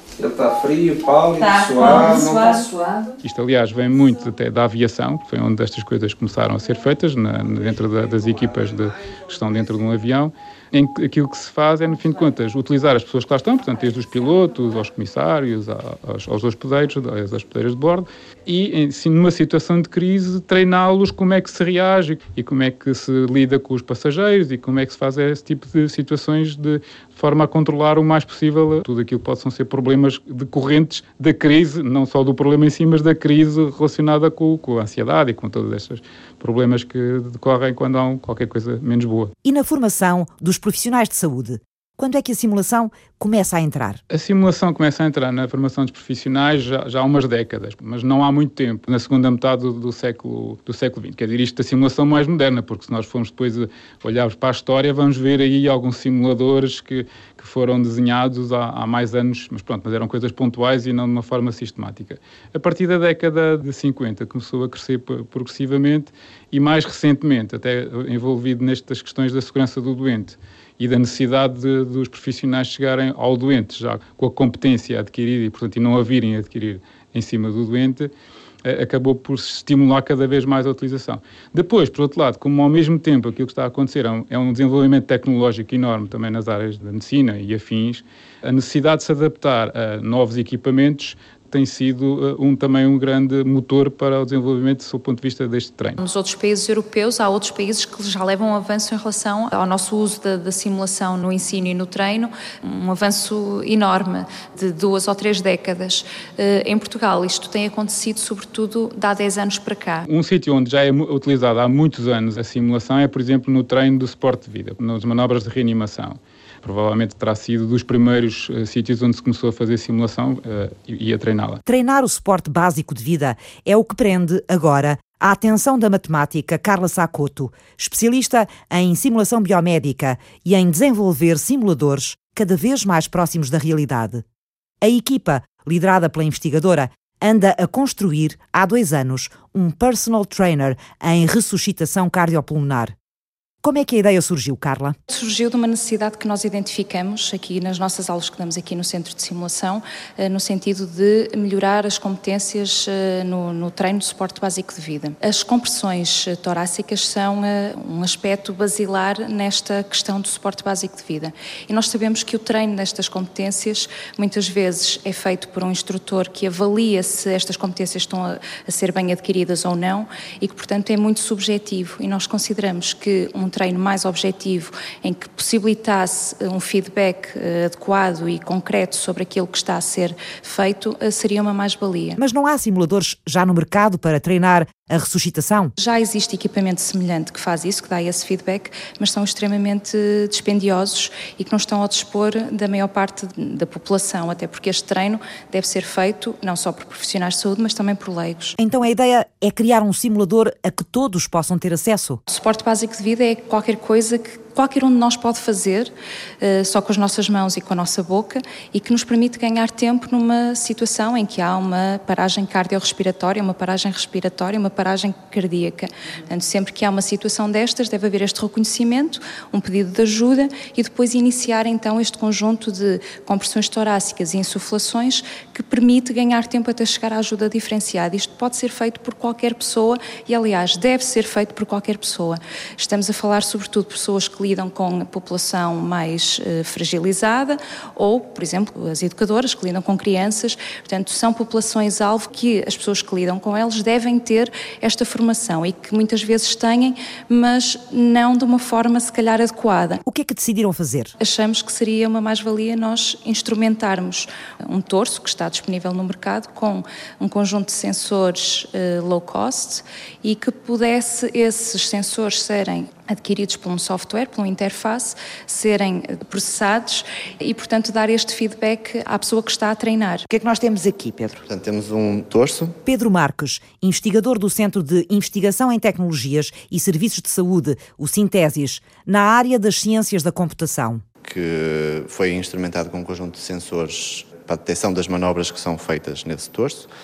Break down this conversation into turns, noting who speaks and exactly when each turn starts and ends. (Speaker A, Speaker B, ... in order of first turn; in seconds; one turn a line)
Speaker A: 0.2-2.2
Speaker B: 1.4-3.1
Speaker C: 3.2-39.3
Speaker D: 39.4-44.0
Speaker C: 44.1-78.1
Speaker C: 78.6-96.0
Speaker E: 96.0-110.0
Speaker C: 110.1-121.6
Speaker D: 121.7-134.2
Speaker D: 134.8-142.9
Speaker D: 143.6-145.0
Speaker E: 145.1-182.2
Speaker D: 182.2-185.7
Speaker E: 185.8-198.6
Speaker D: 198.6-202.2
Speaker E: 202.3-250.0
Speaker D: 250.0-251.1
Speaker E: 251.2-270.3
Speaker B: 270.3-271.4
Speaker F: 271.5-272.8
Speaker D: 272.8-281.0
Speaker F: 281.2-286.9